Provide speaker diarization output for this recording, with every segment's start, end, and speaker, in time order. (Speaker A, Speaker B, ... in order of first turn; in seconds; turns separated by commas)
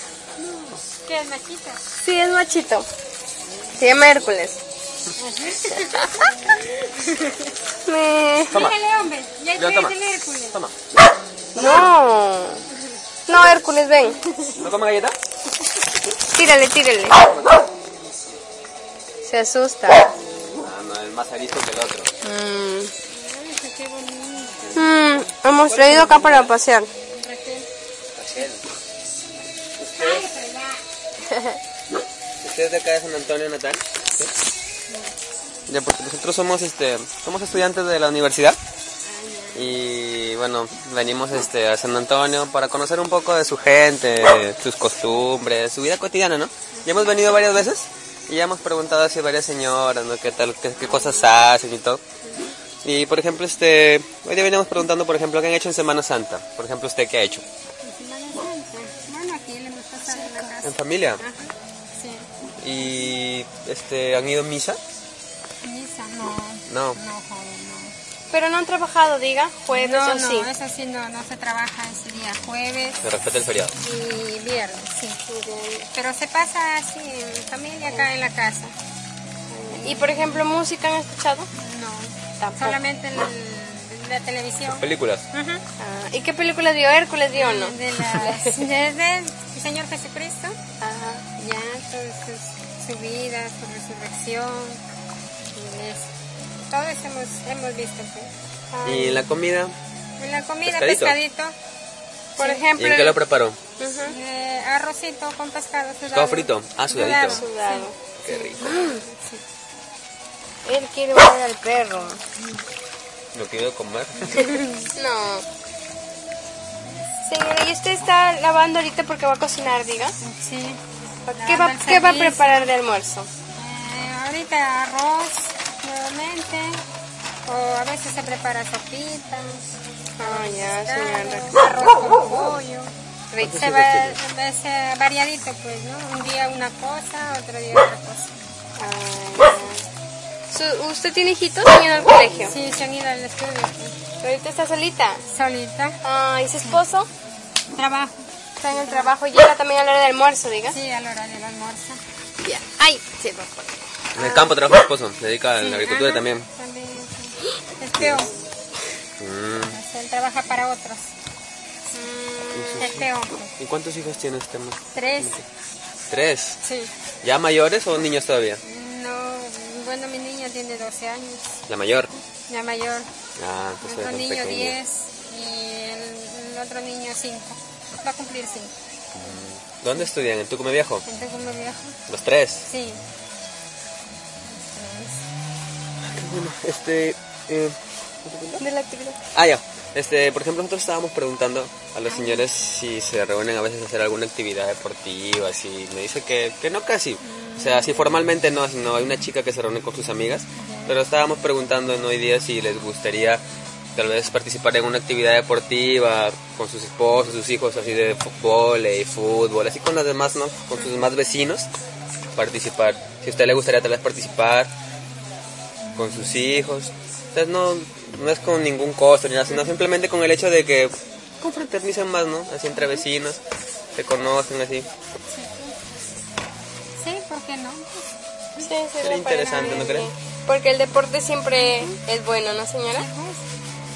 Speaker A: 0.4-1.8, Speaker B: 1.9-2.9, Speaker B: 3.7-4.6, Speaker A: 5.2-7.5, Speaker B: 5.7-6.3, Speaker B: 7.8-8.7, Speaker A: 8.5-10.6, Speaker C: 8.5-8.8, Speaker C: 9.6-10.7, Speaker B: 11.5-12.6, Speaker B: 13.3-14.6, Speaker C: 14.6-15.1, Speaker B: 16.2-17.2, Speaker B: 19.2-20.2, Speaker C: 20.6-22.1, Speaker B: 22.2-22.9, Speaker A: 23.1-25.1, Speaker B: 24.7-26.9, Speaker C: 25.5-26.5, Speaker A: 25.8-26.4, Speaker A: 27.0-27.7, Speaker C: 28.2-28.6, Speaker C: 29.8-30.3, Speaker A: 30.0-30.8, Speaker B: 31.3-31.6, Speaker C: 32.4-34.3, Speaker A: 34.9-35.1, Speaker C: 35.7-38.6, Speaker A: 39.0-39.8, Speaker C: 39.5-52.0, Speaker A: 46.7-47.1, Speaker A: 50.8-51.4, Speaker A: 52.2-52.5, Speaker C: 52.8-57.4, Speaker A: 57.8-62.3, Speaker B: 60.0-60.5, Speaker C: 60.6-61.2, Speaker C: 62.6-64.8, Speaker A: 65.6-67.9, Speaker C: 66.7-67.0, Speaker B: 68.3-70.5, Speaker A: 69.7-73.0, Speaker C: 73.0-73.8, Speaker A: 73.8-75.2, Speaker B: 75.3-75.9, Speaker A: 75.9-78.7, Speaker A: 79.5-80.5, Speaker B: 79.8-81.5, Speaker A: 81.6-85.6, Speaker B: 82.4-82.8, Speaker C: 84.7-85.2, Speaker B: 85.8-88.6, Speaker A: 87.3-90.6, Speaker B: 90.8-91.3, Speaker A: 91.4-94.8, Speaker A: 95.5-96.1, Speaker A: 96.7-98.3, Speaker B: 98.7-99.2, Speaker C: 98.8-99.7, Speaker A: 100.2-101.5, Speaker C: 100.6-101.2, Speaker A: 102.4-102.7, Speaker B: 102.4-103.2, Speaker C: 102.8-103.6, Speaker B: 103.8-104.2, Speaker A: 104.0-109.4, Speaker C: 106.1-107.4, Speaker B: 107.2-108.0, Speaker C: 108.2-108.7, Speaker B: 108.6-109.0, Speaker B: 110.6-112.2, Speaker C: 113.3-114.5, Speaker A: 114.2-114.9, Speaker B: 114.4-115.4, Speaker B: 117.2-120.2, Speaker A: 120.2-120.8, Speaker B: 121.3-123.3, Speaker A: 121.3-122.7, Speaker A: 123.5-126.8, Speaker A: 127.5-132.9, Speaker B: 130.2-131.5, Speaker B: 133.3-133.7, Speaker C: 133.4-134.2, Speaker A: 133.4-138.3, Speaker B: 138.8-139.8, Speaker B: 140.5-142.6, Speaker A: 142.4-143.9, Speaker B: 144.2-145.2, Speaker A: 145.2-146.0, Speaker B: 146.0-147.1, Speaker A: 147.7-149.1, Speaker B: 148.6-150.8, Speaker A: 150.7-152.0, Speaker B: 152.4-154.6, Speaker C: 154.2-156.4, Speaker A: 155.6-158.3, Speaker C: 158.0-158.3, Speaker C: 159.2-159.8, Speaker A: 159.7-161.1, Speaker B: 161.9-162.9, Speaker C: 162.5-165.4, Speaker A: 162.8-163.5, Speaker A: 164.9-165.4, Speaker C: 166.1-166.6, Speaker A: 166.6-166.9, Speaker C: 167.2-168.6, Speaker A: 168.6-171.6, Speaker C: 171.7-172.1, Speaker A: 172.5-173.1, Speaker C: 173.4-174.8, Speaker A: 173.8-178.7, Speaker C: 179.1-181.0, Speaker A: 181.1-182.0, Speaker C: 182.1-182.7, Speaker A: 182.7-183.0, Speaker A: 184.4-185.2, Speaker C: 186.0-188.6, Speaker B: 188.6-189.2, Speaker C: 189.3-203.4, Speaker A: 192.1-192.5, Speaker A: 197.2-198.2, Speaker A: 200.6-201.0, Speaker C: 203.9-211.7, Speaker A: 210.8-211.0, Speaker C: 212.4-214.7, Speaker C: 215.9-223.4, Speaker C: 223.9-224.9, Speaker A: 225.3-225.8, Speaker A: 226.9-228.7, Speaker B: 228.6-233.1, Speaker C: 229.0-230.1, Speaker A: 229.3-230.1, Speaker A: 231.5-232.0, Speaker A: 232.9-233.4